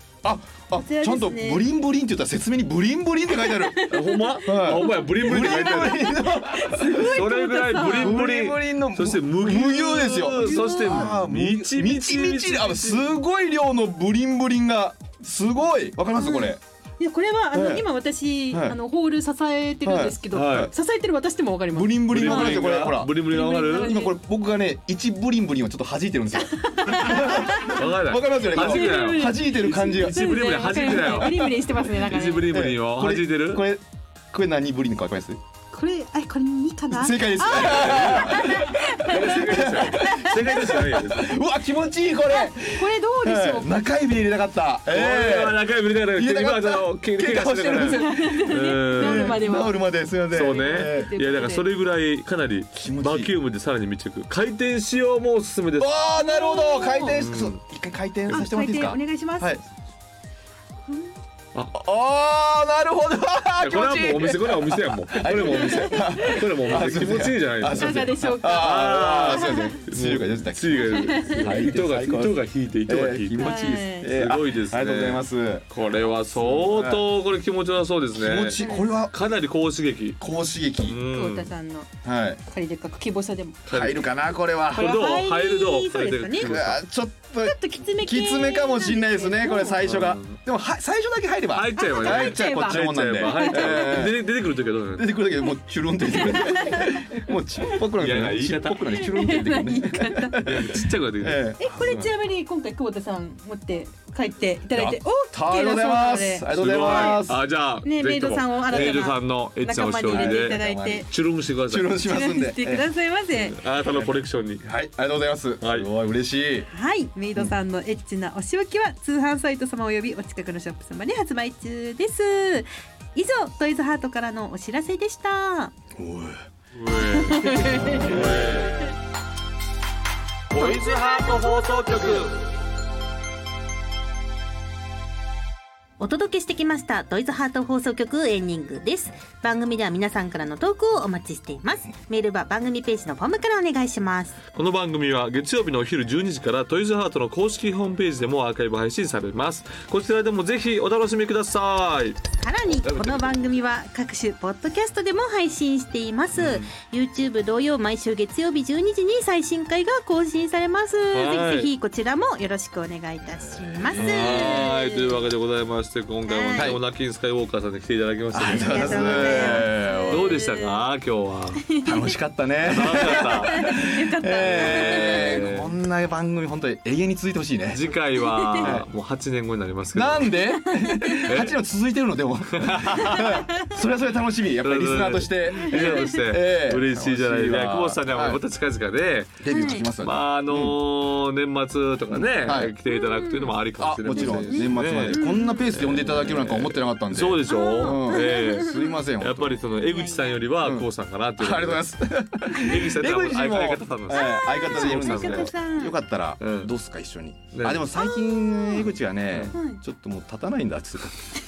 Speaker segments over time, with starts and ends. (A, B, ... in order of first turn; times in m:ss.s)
0:00.2-0:03.8 A
0:00.7-0:01.6 B
0:03.3-0:08.3 B
0:03.9-0:06.1 C
0:04.4-0:16.6 A
0:06.8-0:13.1 C
0:10.4-0:11.1 B
0:16.2-0:24.2 B
0:17.5-0:17.8 A
0:18.5-0:18.8 A
0:19.8-0:20.7 A
0:20.3-0:20.7 C
0:21.7-0:30.4 A
0:22.1-0:24.0 C
0:26.4-0:27.8 B
0:27.0-0:31.4 C
0:28.5-0:32.6 B
0:31.0-0:31.6 A
0:31.9-0:33.6 C
0:32.5-0:35.4 A
0:35.7-0:40.8 B
0:36.9-0:45.6 A
0:37.5-0:41.3 C
0:42.3-0:43.8 B
0:44.9-0:49.4 C
0:46.2-0:48.2 A
0:47.8-0:49.8 B
0:48.9-0:51.1 A
0:50.3-0:55.9 C
0:50.3-0:51.7 B
0:52.7-0:53.3 A
0:55.8-0:59.6 A
0:56.2-0:57.2 B
0:57.1-0:57.6 C
0:58.3-0:59.6 B
1:00.9-1:01.1 B
1:01.7-1:15.6 A
1:03.6-1:18.6 C
1:03.6-1:04.5 B
1:05.2-1:06.9 B
1:07.7-1:09.8 B
1:10.9-1:11.6 B
1:13.4-1:14.1 B
1:16.4-1:17.0 A
1:18.1-1:19.1 A
1:18.6-1:18.9 B
1:19.1-1:20.2 C
1:20.2-1:21.0 A
1:20.8-1:21.5 C
1:21.0-1:21.9 B
1:22.0-1:22.4 A
1:22.5-1:23.6 B
1:23.7-1:24.0 C
1:23.7-1:25.0 A
1:24.7-1:26.8 C
1:24.7-1:26.6 B
1:26.4-1:34.3 A
1:27.4-1:29.8 B
1:29.8-1:30.4 C
1:31.5-1:35.1 C
1:31.7-1:34.2 B
1:34.9-1:42.1 A
1:36.1-1:37.2 B
1:38.0-1:39.0 C
1:38.9-1:40.4 B
1:40.4-1:42.1 C
1:41.6-1:47.2 B
1:44.7-1:47.4 A
1:46.5-1:52.0 C
1:47.8-1:51.1 B
1:50.1-1:51.1 A
1:51.7-1:52.9 A
1:52.0-1:53.6 B
1:53.4-1:54.6 C
1:53.9-1:56.7 A
1:55.6-1:55.9 C
1:56.7-2:05.7 B
2:05.9-2:06.4 A
2:06.7-2:08.9 C
2:07.0-2:08.7 B
2:07.6-2:08.3 A
2:10.5-2:12.4 C
2:10.5-2:12.3 B
2:16.0-2:24.4 B
2:24.5-2:32.2 C
2:32.4-2:45.2 B
2:32.8-2:33.4 C
2:36.3-2:36.7 C
2:41.1-2:41.7 C
2:43.3-2:44.6 A
2:43.9-2:51.7 C
2:46.2-2:46.7 B
2:46.5-2:46.8 A
2:48.3-2:50.4 A
2:48.5-2:50.8 B
2:51.6-2:52.1 B
2:51.8-2:57.8 A
2:52.6-2:53.7 C
2:53.0-2:55.4 B
2:54.4-2:55.7 C
2:57.7-3:00.4 C
2:58.2-2:58.8 B
2:58.6-2:58.9 A
2:59.9-3:08.4 A
3:00.5-3:01.3 B
3:01.2-3:01.6 C
3:02.5-3:03.4 C
3:03.0-3:03.7 B
3:04.6-3:09.4 C
3:05.7-3:06.1 B
3:09.4-3:10.8 A
3:09.5-3:09.9 B
3:10.0-3:21.8 C
3:12.1-3:12.7 A
3:12.9-3:15.7 B
3:13.8-3:19.6 A
3:17.5-3:19.0 B
3:19.8-3:20.4 B
3:20.6-3:20.9 A
3:21.4-3:31.3 A
3:22.5-3:25.5 C
3:24.1-3:25.9 B
3:26.4-3:26.7 C
3:27.5-3:27.9 C
3:28.0-3:28.9 B
3:29.3-3:29.6 C
3:29.5-3:29.8 B